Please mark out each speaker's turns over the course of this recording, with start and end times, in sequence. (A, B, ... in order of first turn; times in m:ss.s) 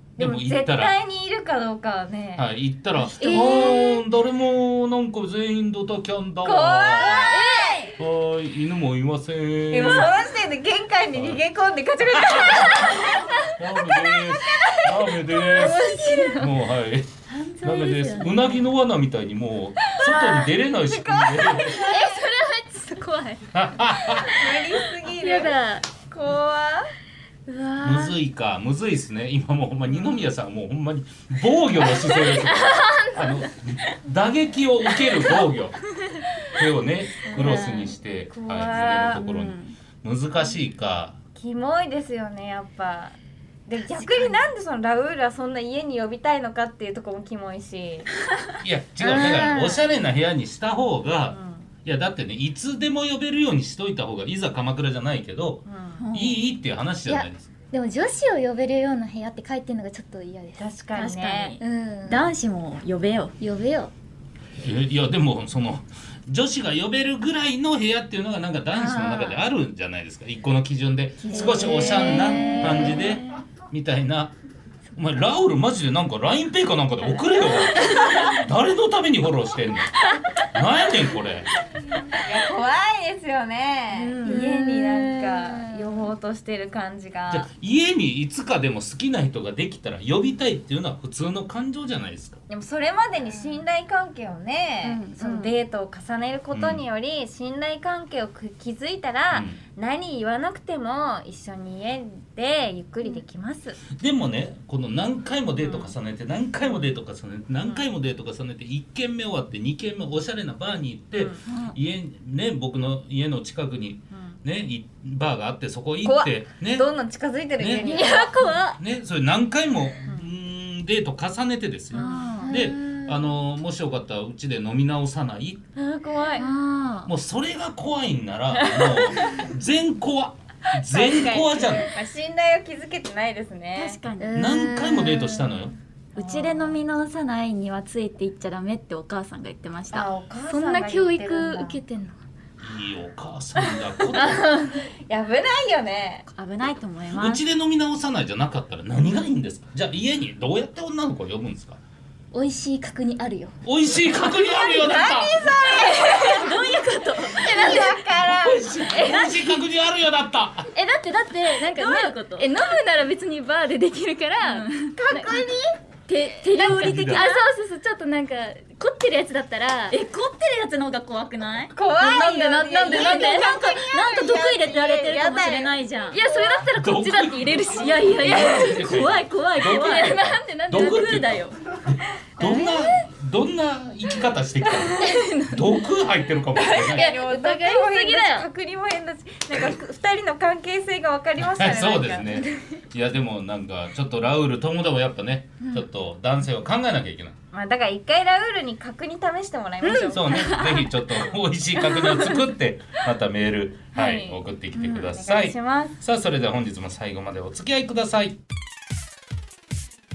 0:00.2-0:02.5 A
0:00.2-0:00.9 B
0:02.4-0:10.1 B
0:03.2-0:03.8 C
0:03.2-0:03.9 D
0:03.3-0:03.8 A
0:06.4-0:07.9 A
0:07.3-0:07.8 D
0:07.3-0:07.8 C
0:09.7-0:13.3 A
0:11.1-0:11.4 B
0:12.1-0:15.8 B
0:13.9-0:15.0 A
0:15.2-0:16.5 D
0:15.6-0:15.9 A
0:15.8-0:16.4 C
0:16.4-0:21.8 B
0:17.3-0:18.6 D
0:20.0-0:22.3 A
0:21.6-0:23.5 D
0:23.5-0:24.4 B
0:24.1-0:25.8 D
0:24.2-0:26.9 A
0:27.5-0:28.2 D
0:27.8-0:35.8 B
0:32.1-0:33.3 D
0:36.5-0:41.2 B
0:37.2-0:39.2 A
0:37.3-0:37.9 D
0:39.0-0:39.7 D
0:41.4-0:43.2 A
0:43.7-0:48.1 A
0:44.0-0:44.4 D
0:48.6-0:55.6 B
0:49.0-0:49.8 C
0:51.3-0:51.7 A
0:55.7-0:56.0 A
0:56.0-0:56.4 D
0:56.1-0:57.5 B
0:57.1-1:00.7 C
1:00.6-1:01.6 A
1:00.9-1:03.4 D
1:01.6-1:02.3 C
1:03.4-1:03.9 C
1:04.6-1:14.4 B
1:08.8-1:09.4 D
1:11.2-1:13.0 C
1:11.3-1:13.3 D
1:15.0-1:20.0 B
1:17.9-1:18.3 A
1:20.5-1:21.5 B
1:22.1-1:27.5 A
1:24.0-1:25.5 D
1:24.1-1:25.2 C
1:27.3-1:32.4 B
1:32.5-1:43.8 A
1:34.8-1:35.5 D
1:36.5-1:36.8 B
1:39.3-1:39.6 B
1:44.0-1:56.9 B
1:45.6-1:46.0 A
1:51.2-1:51.4 A
1:51.5-1:51.8 D
1:56.0-1:58.6 A
1:57.6-1:58.0 B
1:57.8-1:58.7 D
1:57.9-1:58.8 C
1:58.8-2:05.6 B
2:01.9-2:02.6 A
2:01.9-2:02.6 D
2:02.5-2:03.0 C
2:05.8-2:06.5 A
2:06.4-2:07.1 D
2:07.1-2:11.9 B
2:08.6-2:09.4 A
2:10.9-2:14.0 A
2:13.8-2:14.4 D
2:14.2-2:15.6 C
2:14.4-2:15.7 B
2:16.2-2:20.1 D
2:16.2-2:16.8 A
2:19.9-2:21.8 A
2:20.5-2:22.2 C
2:22.6-2:24.4 B
2:24.1-2:24.6 D
2:24.9-2:26.2 A
2:26.3-2:27.4 D
2:27.1-2:31.8 B
2:32.3-2:33.5 C
2:33.6-2:35.7 B
2:34.4-2:36.7 A
2:35.7-2:37.9 D
2:37.3-2:39.2 A
2:37.4-2:38.0 C
2:38.1-2:40.7 B
2:40.8-2:42.8 D
2:40.8-2:45.3 C
2:44.4-2:45.3 D
2:45.0-2:45.8 A
2:46.1-2:47.4 D
2:46.6-2:50.0 C
2:46.6-2:47.3 B
2:49.9-3:01.6 D
2:51.7-2:55.8 A
2:52.0-2:53.6 C
2:56.1-2:57.0 C
2:56.8-3:07.1 B
3:02.4-3:02.8 D
3:05.0-3:05.8 D
3:06.6-3:12.4 A
3:06.8-3:08.5 D
3:11.4-3:17.4 B
3:17.5-3:20.6 A
3:19.8-3:20.9 D
3:20.1-3:28.4 B
3:23.9-3:26.0 A